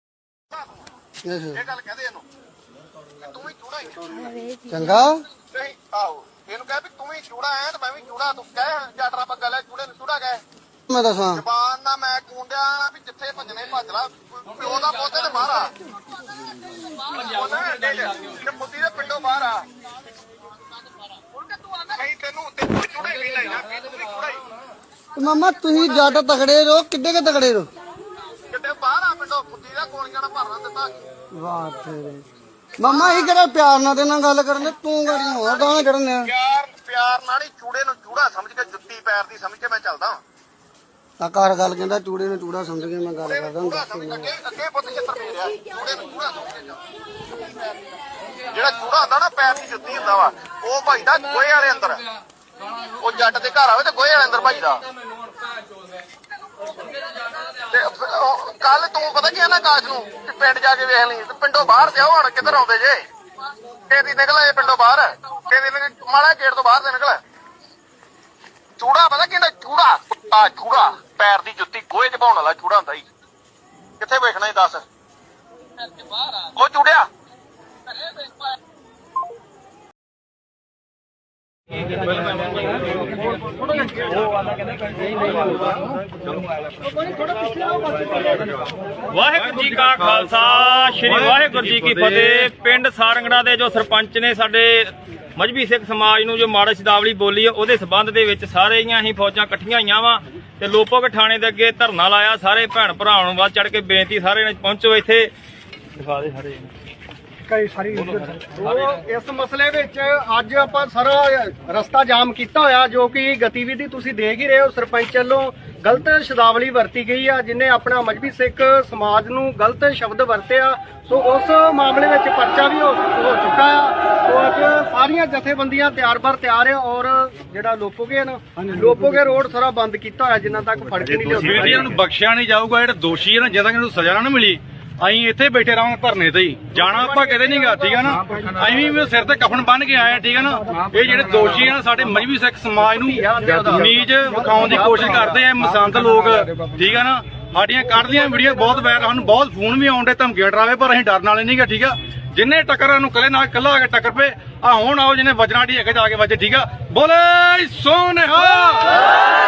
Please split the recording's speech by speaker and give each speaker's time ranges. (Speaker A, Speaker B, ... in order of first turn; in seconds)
Speaker A: 0.5-0.8, 1.5-2.2, 3.2-4.2, 5.5-10.4, 11.3-15.7, 17.1-19.6, 21.7-24.4, 28.5-31.0, 33.0-33.3, 35.1-40.2, 43.3-46.8, 48.5-52.0, 53.0-54.8, 57.7-63.0, 63.9-67.2, 68.8-73.0, 74.0-74.8, 76.4-77.1
Speaker B: 1.2-1.6, 4.7-5.2, 10.9-11.4, 25.2-27.7, 31.3-32.2, 32.8-36.3, 41.2-44.2, 128.6-129.1
Speaker C: 86.8-88.6, 107.5-131.9, 136.7-138.2, 142.9-145.4
Speaker D: 89.1-105.3, 106.0-106.7
Speaker E: 89.4-92.4, 131.3-159.0